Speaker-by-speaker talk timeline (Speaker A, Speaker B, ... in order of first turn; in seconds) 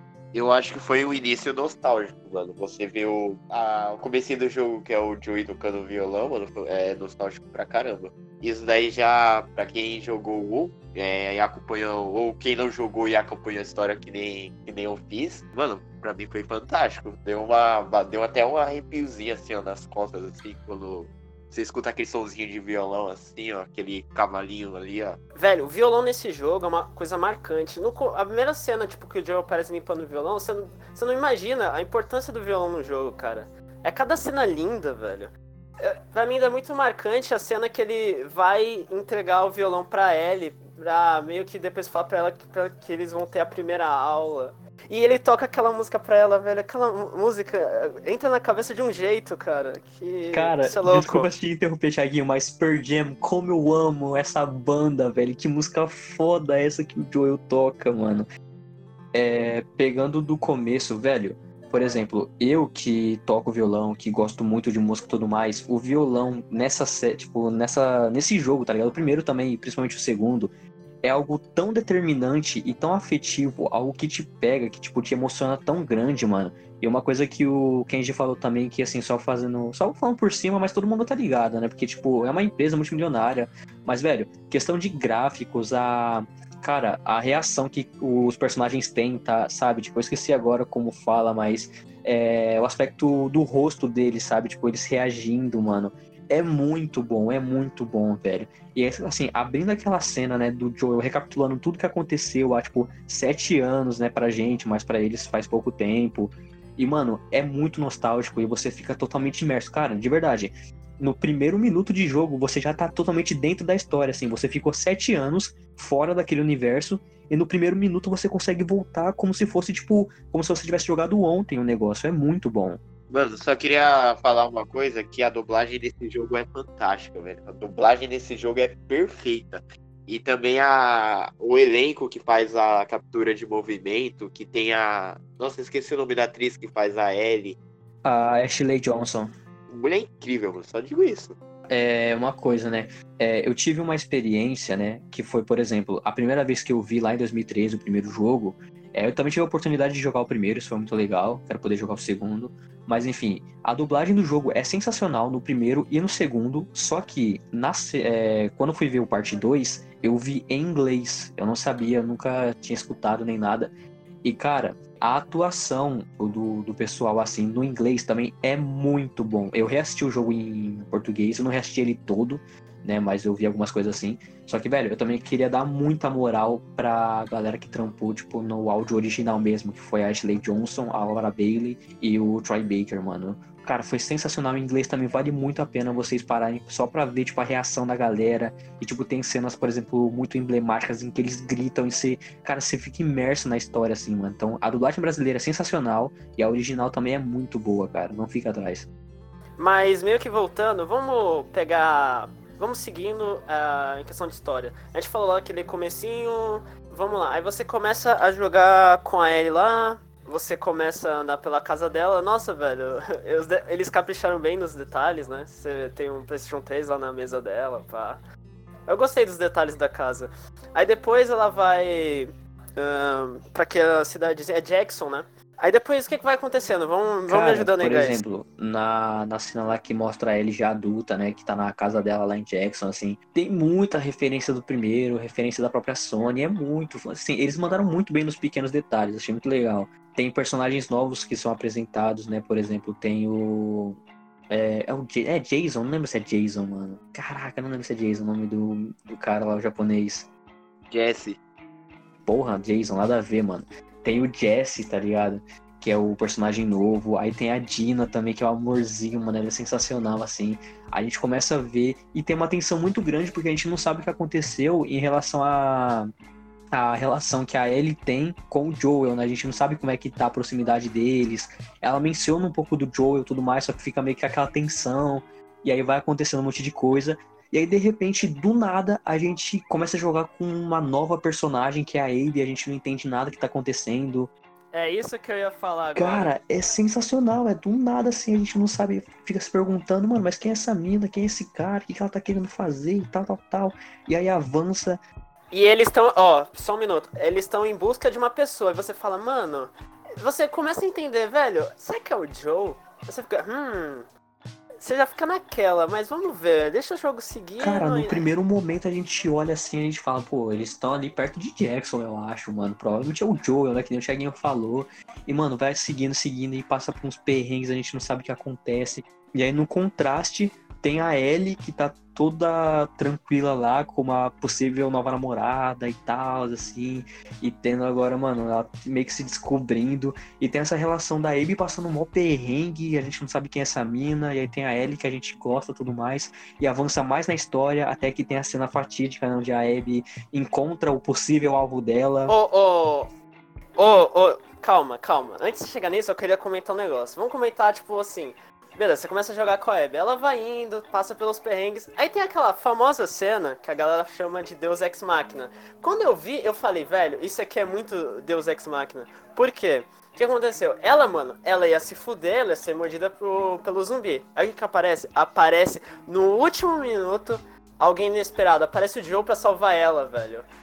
Speaker A: 0.3-25.2, 123.1-137.6, 139.7-141.3, 250.9-251.4
Speaker B: 25.4-51.3, 199.6-218.2, 218.9-228.2, 284.7-286.3, 295.5-304.1, 304.8-308.3, 342.3-343.1, 343.8-370.4
Speaker C: 50.3-58.3, 59.1-70.5, 71.0-122.8, 138.0-139.3, 141.7-163.7, 164.2-198.9, 227.3-244.0, 244.5-250.3, 252.2-266.1, 266.7-284.3, 285.9-295.0, 307.6-342.3